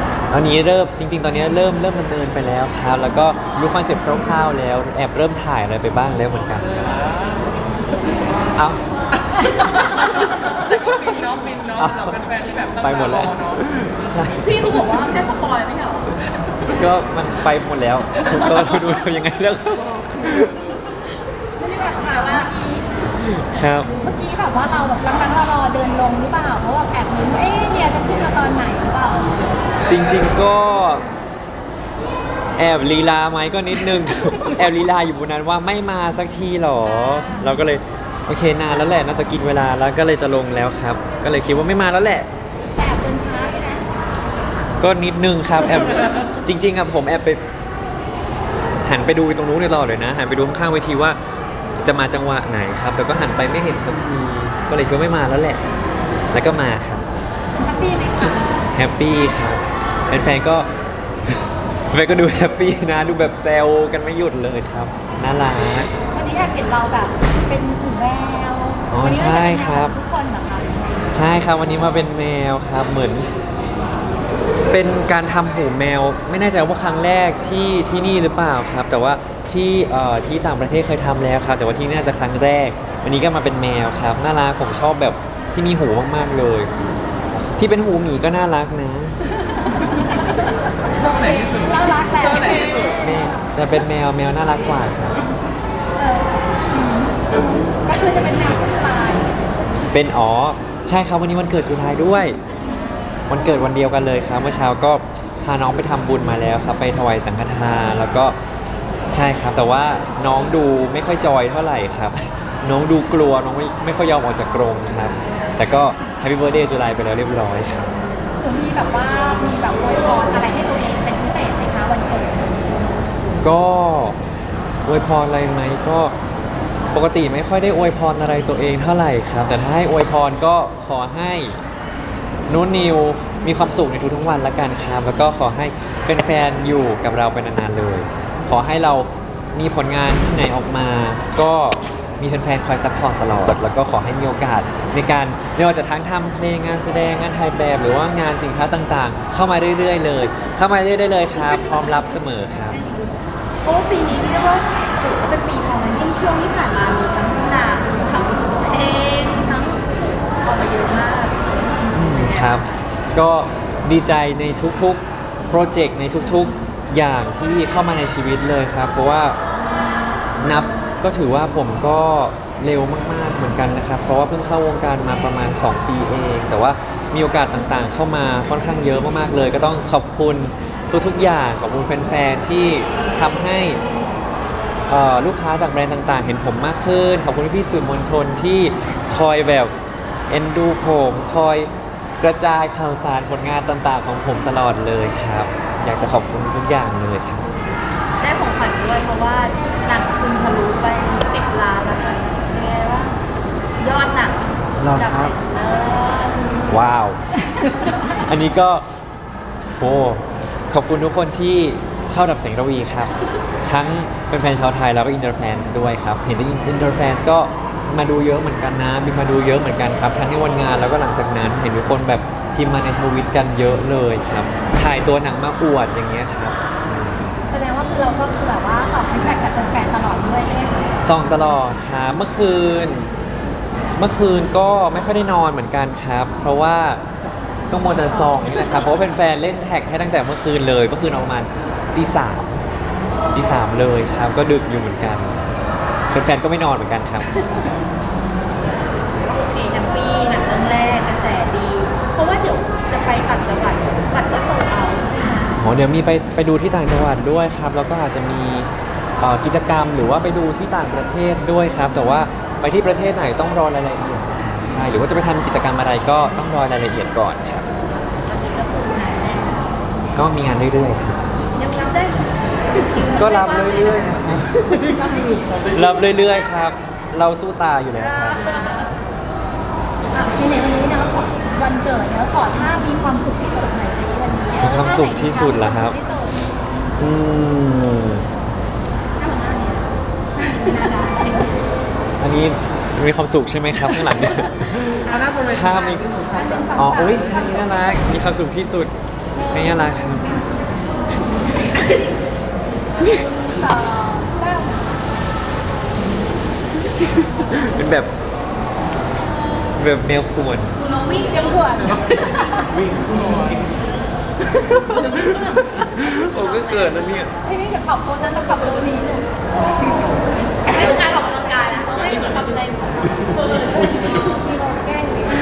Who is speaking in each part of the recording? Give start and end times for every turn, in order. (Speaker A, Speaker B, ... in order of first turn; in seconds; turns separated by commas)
Speaker A: 0.3-7.1, Speaker A: 8.6-8.8, Speaker A: 9.3-10.8, Speaker B: 10.6-13.4, Speaker A: 11.8-14.8, Speaker C: 14.4-16.2, Speaker A: 16.7-20.6, Speaker C: 18.5-19.0, Speaker D: 21.6-22.9, Speaker C: 21.7-22.5, Speaker A: 23.2-23.9, Speaker D: 23.9-29.6, Speaker A: 29.9-31.1, Speaker A: 32.6-42.3, Speaker D: 37.1-37.4, Speaker D: 42.8-43.8, Speaker A: 44.8-47.4, Speaker A: 48.9-51.2, Speaker A: 51.8-55.6, Speaker A: 56.3-57.1, Speaker D: 57.6-58.5, Speaker A: 58.7-60.7, Speaker A: 61.9-65.9, Speaker D: 66.1-70.9, Speaker A: 68.9-69.9, Speaker A: 71.1-73.3, Speaker A: 74.7-86.7, Speaker A: 87.6-89.2, Speaker D: 89.3-93.5, Speaker B: 91.0-92.8, Speaker A: 93.0-95.2, Speaker D: 96.0-99.3, Speaker A: 99.9-102.4, Speaker A: 103.3-108.4, Speaker A: 109.1-118.0, Speaker D: 118.4-122.7, Speaker A: 123.4-124.2, Speaker A: 124.9-126.2, Speaker A: 126.9-131.6, Speaker A: 132.5-152.8, Speaker C: 153.6-162.7, Speaker A: 161.9-169.4, Speaker A: 170.4-183.8, Speaker A: 184.9-189.7, Speaker A: 190.3-191.7, Speaker A: 192.2-197.5, Speaker C: 198.2-203.2, Speaker C: 203.8-206.8, Speaker A: 204.8-205.4, Speaker A: 206.7-208.8, Speaker A: 209.8-213.1, Speaker A: 213.7-227.4, Speaker D: 227.5-230.9, Speaker A: 231.0-233.1, Speaker A: 233.9-237.0, Speaker A: 237.7-242.6, Speaker A: 243.3-245.4, Speaker A: 246.1-247.4, Speaker C: 249.2-255.6, Speaker A: 255.6-267.7, Speaker C: 268.2-269.7, Speaker A: 270.2-271.2, Speaker C: 271.6-274.7, Speaker A: 273.2-274.7, Speaker D: 275.0-275.6, Speaker A: 275.7-278.4, Speaker D: 280.1-286.4, Speaker A: 284.6-286.0, Speaker A: 287.0-288.3, Speaker D: 289.2-291.5, Speaker A: 292.2-298.9, Speaker B: 295.3-296.2, Speaker D: 296.3-298.2, Speaker D: 299.4-299.9, Speaker A: 299.5-300.5, Speaker D: 303.0-305.0, Speaker A: 307.0-308.1, Speaker A: 309.8-310.8, Speaker D: 310.9-312.8, Speaker A: 312.8-313.6, Speaker A: 314.4-317.3, Speaker C: 315.2-315.6, Speaker D: 317.4-320.1, Speaker D: 320.7-321.8, Speaker C: 320.7-324.6, Speaker D: 324.6-325.2